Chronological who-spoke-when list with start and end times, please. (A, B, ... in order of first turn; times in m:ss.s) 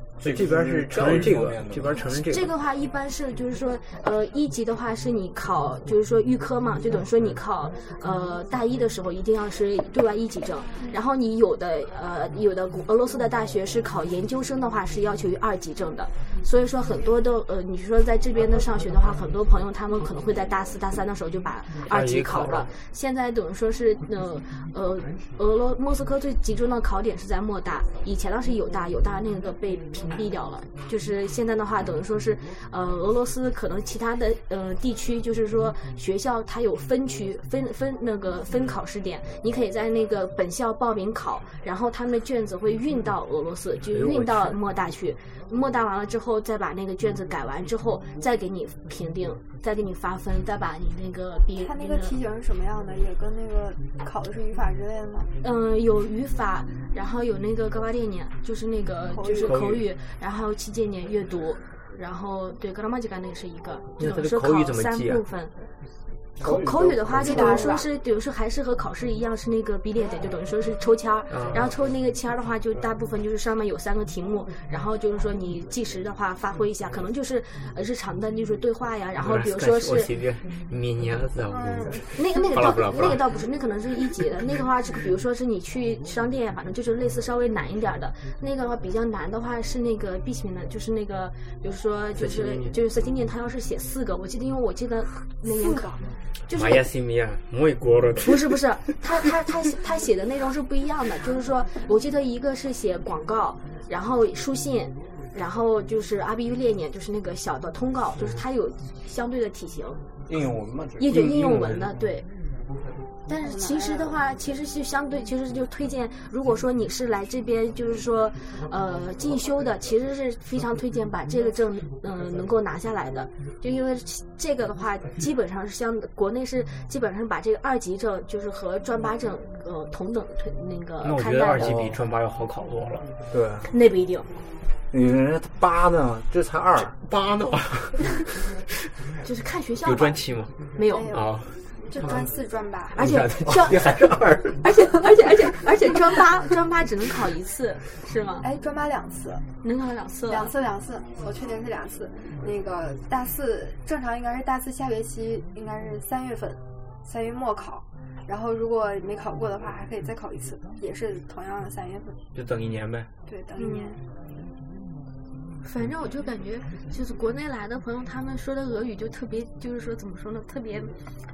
0:00.2-0:02.0 A
0:00.2-0:02.5 B
0:02.3-0:52.2 C
0:21.8-0:22.7 B
0:43.9-0:44.6 B
0:51.6-0:55.3 D
0:55.4-1:05.5 C
0:59.1-0:59.6 D
0:59.4-0:59.9 B
1:04.0-1:05.2 B
1:06.4-1:07.8 A
1:06.4-1:20.1 C
1:07.2-1:07.9 D
1:11.3-1:11.8 B
1:19.2-1:23.3 B
1:21.5-1:22.5 D
1:22.1-1:35.9 C
1:32.2-1:32.8 B
1:35.5-1:36.1 D
1:36.5-1:36.8 C
1:36.5-1:38.6 B
1:38.2-1:50.0 C
1:48.2-1:48.4 B
1:50.3-1:51.2 A
1:51.0-1:52.3 C
1:51.1-1:51.9 B
1:53.3-2:11.7 C
1:53.4-1:54.1 D
2:11.0-2:13.1 B
2:11.6-2:12.0 A
2:13.3-2:13.7 A
2:13.7-2:14.3 C
2:14.9-2:17.0 A
2:16.9-2:18.2 B
2:19.2-2:20.2 C
2:19.8-2:20.5 B
2:20.7-2:21.2 C
2:20.9-2:23.0 D
2:21.1-2:22.3 B
2:23.0-2:24.7 B
2:23.0-2:23.8 C
2:24.6-2:28.5 C
2:28.4-2:29.4 D
2:29.6-2:30.5 C
2:30.3-2:42.2 D
2:42.3-2:43.1 B
2:43.3-2:44.0 D
2:43.6-2:44.0 C
2:45.6-2:51.0 C